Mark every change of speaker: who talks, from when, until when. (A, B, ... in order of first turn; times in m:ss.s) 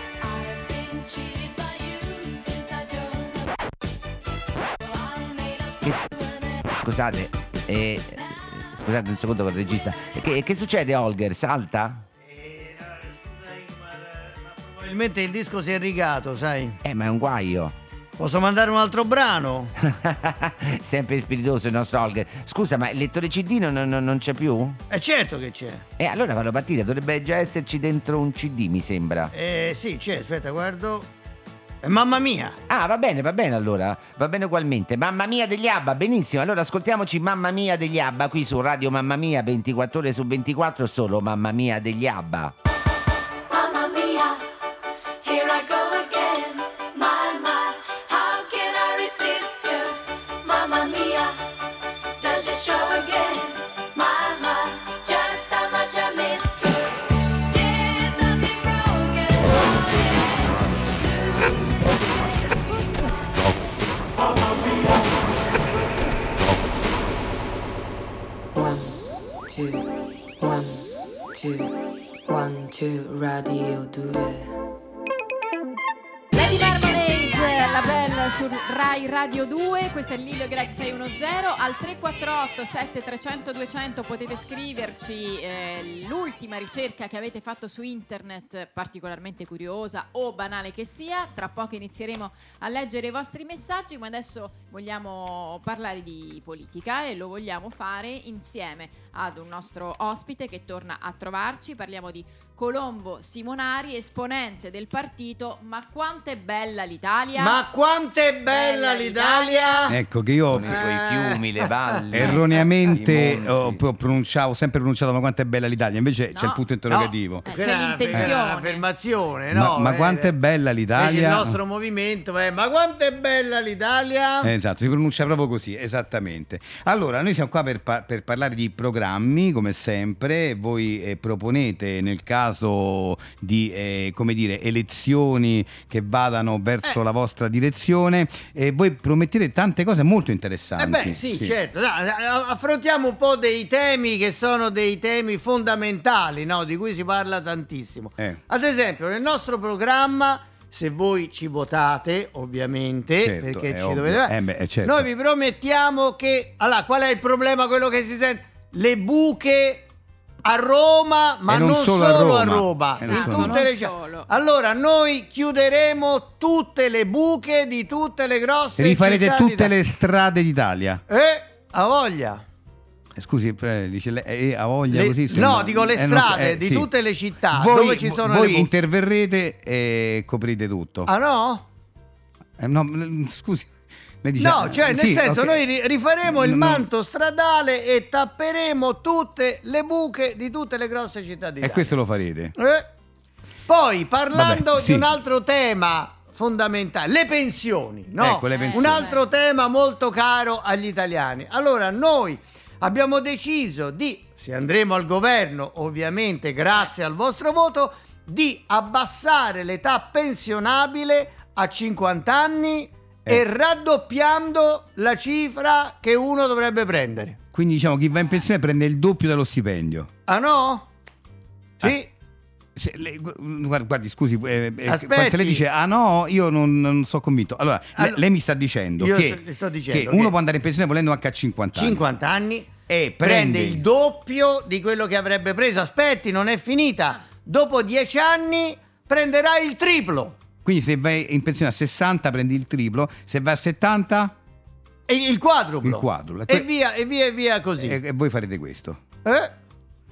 0:00.2-0:03.5 A
0:04.8-0:06.7 A
0:06.7-0:12.0 B
0:09.6-0:10.6 A
0:12.2-0:16.8 C
0:16.8-0:17.7 B
0:18.2-0:19.7 C
0:19.8-0:24.8 B
0:24.9-0:25.8 C
0:26.0-0:29.3 B
0:29.3-0:31.1 C
0:31.8-0:32.6 C
0:32.7-0:42.5 B
0:43.5-0:44.5 A
0:45.2-0:51.4 A
0:52.2-1:03.6 A
1:08.6-1:09.9 D
1:10.4-1:11.7 D
1:12.3-1:14.5 D
1:16.3-1:47.6 E
1:47.4-1:50.0 C
1:48.5-1:49.9 E
1:49.9-1:50.8 F
1:50.5-1:53.8 G
1:50.9-1:51.4 C
1:52.1-1:57.5 F
1:56.3-1:56.6 E
1:56.9-2:00.3 C
1:57.4-1:58.8 E
1:59.5-2:01.6 F
2:01.0-2:04.5 C
2:04.4-2:21.5 F
2:20.8-2:39.9 C
2:33.2-2:35.1 F
2:40.4-2:49.7 C
2:41.5-2:43.6 F
2:43.0-2:44.3 E
2:48.8-2:51.0 F
2:51.1-2:52.4 C
2:53.2-2:56.9 F
2:54.9-2:58.7 C
2:57.5-3:01.1 F
3:01.1-3:01.7 C
3:02.6-3:03.7 F
3:04.2-3:05.6 F
3:04.4-3:12.0 C
3:06.3-3:06.9 F
3:11.6-3:12.6 F
3:12.6-3:12.9 C
3:13.7-3:37.4 C
3:14.3-3:15.1 F
3:18.2-3:19.1 F
3:18.5-3:19.2 E
3:37.5-3:40.1 F
3:40.3-3:40.9 C
3:41.8-3:42.1 C
3:42.8-3:52.0 F
3:44.9-3:45.6 C
3:48.0-3:48.2 C
3:49.0-3:50.3 C
3:51.8-4:00.4 C
3:52.9-3:53.8 F
4:00.6-4:04.3 F
4:05.1-4:08.0 C
4:05.8-4:06.7 F
4:07.8-4:09.0 F
4:09.2-4:09.5 C